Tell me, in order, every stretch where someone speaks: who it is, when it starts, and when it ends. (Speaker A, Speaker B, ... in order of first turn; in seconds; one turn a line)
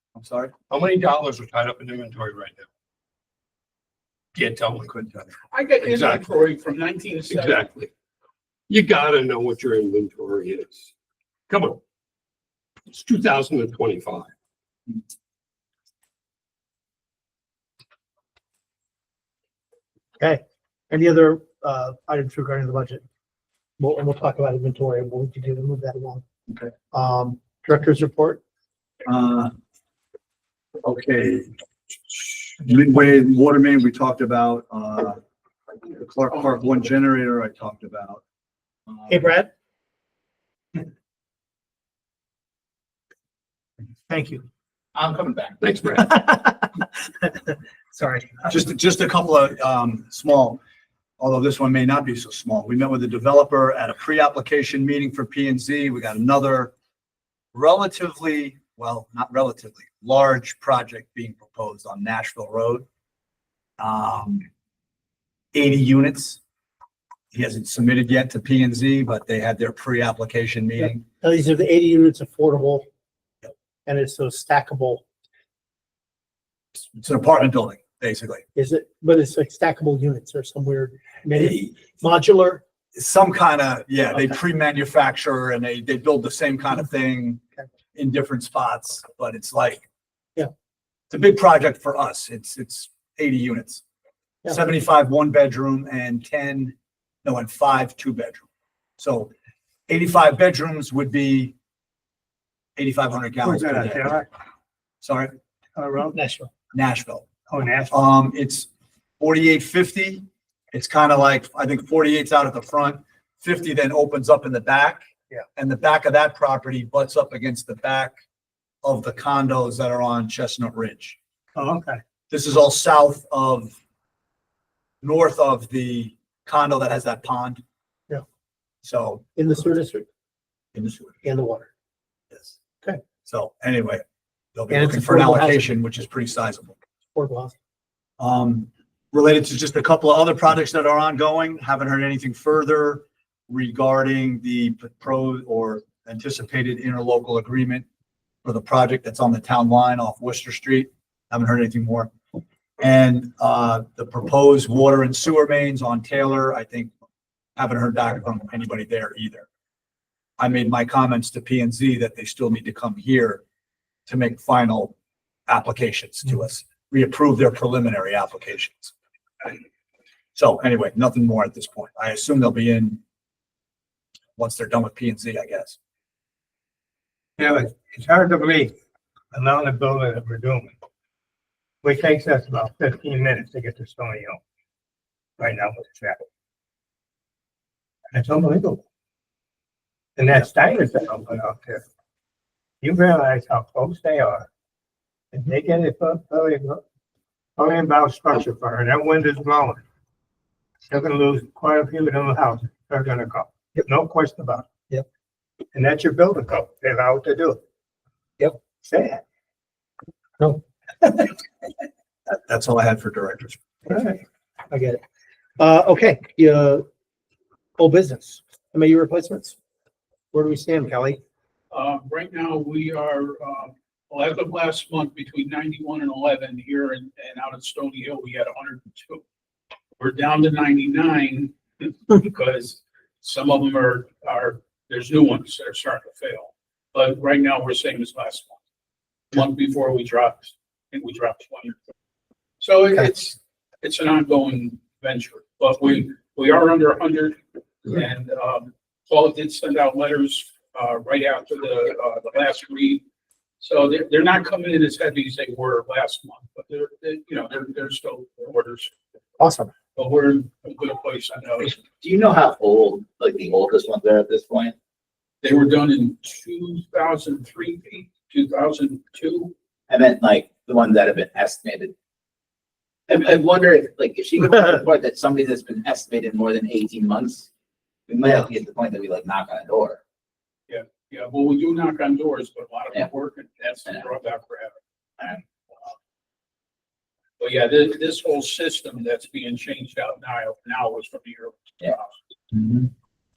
Speaker A: 0.2-0.5
Speaker B: 0.7-2.7
Speaker B: 4.3-6.3
Speaker C: 5.5-7.7
Speaker B: 7.3-7.9
Speaker B: 8.7-10.9
Speaker B: 11.5-11.8
Speaker B: 12.9-14.3
Speaker D: 20.2-23.0
Speaker D: 23.8-26.2
Speaker D: 26.9-28.4
Speaker A: 29.1-29.5
Speaker A: 30.8-31.5
Speaker A: 32.1-35.2
Speaker A: 35.8-38.2
Speaker D: 39.1-39.5
Speaker D: 44.1-44.5
Speaker E: 45.0-45.7
Speaker B: 45.6-45.9
Speaker D: 46.0-46.7
Speaker D: 47.2-48.5
Speaker A: 48.5-50.6
Speaker A: 51.2-56.7
Speaker A: 57.5-62.9
Speaker A: 63.8-64.5
Speaker A: 65.5-66.4
Speaker A: 67.3-71.0
Speaker D: 70.8-72.9
Speaker D: 73.9-75.0
Speaker A: 76.8-78.4
Speaker D: 78.5-82.6
Speaker A: 81.3-81.7
Speaker A: 83.0-87.4
Speaker A: 88.0-89.8
Speaker A: 91.1-93.8
Speaker A: 94.5-98.5
Speaker A: 99.0-99.3
Speaker A: 99.9-101.5
Speaker A: 102.8-104.2
Speaker F: 103.4-104.3
Speaker A: 105.0-105.3
Speaker F: 105.8-106.1
Speaker D: 106.1-106.5
Speaker A: 106.7-107.3
Speaker F: 107.5-108.0
Speaker A: 107.9-108.7
Speaker A: 109.2-115.0
Speaker A: 115.6-118.1
Speaker A: 118.8-121.2
Speaker F: 121.6-121.9
Speaker A: 122.3-123.7
Speaker A: 125.0-127.6
Speaker A: 128.8-129.2
Speaker D: 129.4-130.1
Speaker A: 130.8-131.1
Speaker D: 131.2-131.7
Speaker A: 133.3-134.0
Speaker A: 134.6-136.8
Speaker D: 134.7-135.7
Speaker D: 137.2-137.6
Speaker A: 138.2-147.8
Speaker A: 148.4-152.1
Speaker A: 152.8-156.9
Speaker A: 157.6-159.5
Speaker A: 160.4-163.4
Speaker A: 164.1-164.9
Speaker A: 165.5-169.6
Speaker A: 170.3-173.0
Speaker A: 174.4-175.8
Speaker F: 177.4-178.7
Speaker F: 179.3-180.7
Speaker F: 181.8-184.4
Speaker F: 185.4-186.2
Speaker F: 188.1-188.8
Speaker F: 190.2-191.8
Speaker F: 192.8-194.5
Speaker F: 195.3-196.8
Speaker F: 197.6-199.8
Speaker F: 200.9-204.7
Speaker F: 205.7-207.6
Speaker F: 208.8-209.2
Speaker D: 210.4-211.1
Speaker A: 212.3-213.7
Speaker D: 213.9-215.0
Speaker D: 215.6-216.8
Speaker D: 217.8-219.6
Speaker D: 220.3-221.2
Speaker C: 221.7-229.2
Speaker C: 230.0-238.6
Speaker C: 239.3-241.8
Speaker C: 242.6-253.0
Speaker C: 253.6-258.9
Speaker D: 259.4-259.7
Speaker C: 260.0-261.8
Speaker E: 261.6-264.8
Speaker C: 265.4-269.5
Speaker E: 269.9-271.9
Speaker E: 273.1-277.5
Speaker E: 278.1-280.0
Speaker C: 280.7-284.8
Speaker C: 287.4-292.2
Speaker E: 292.5-292.9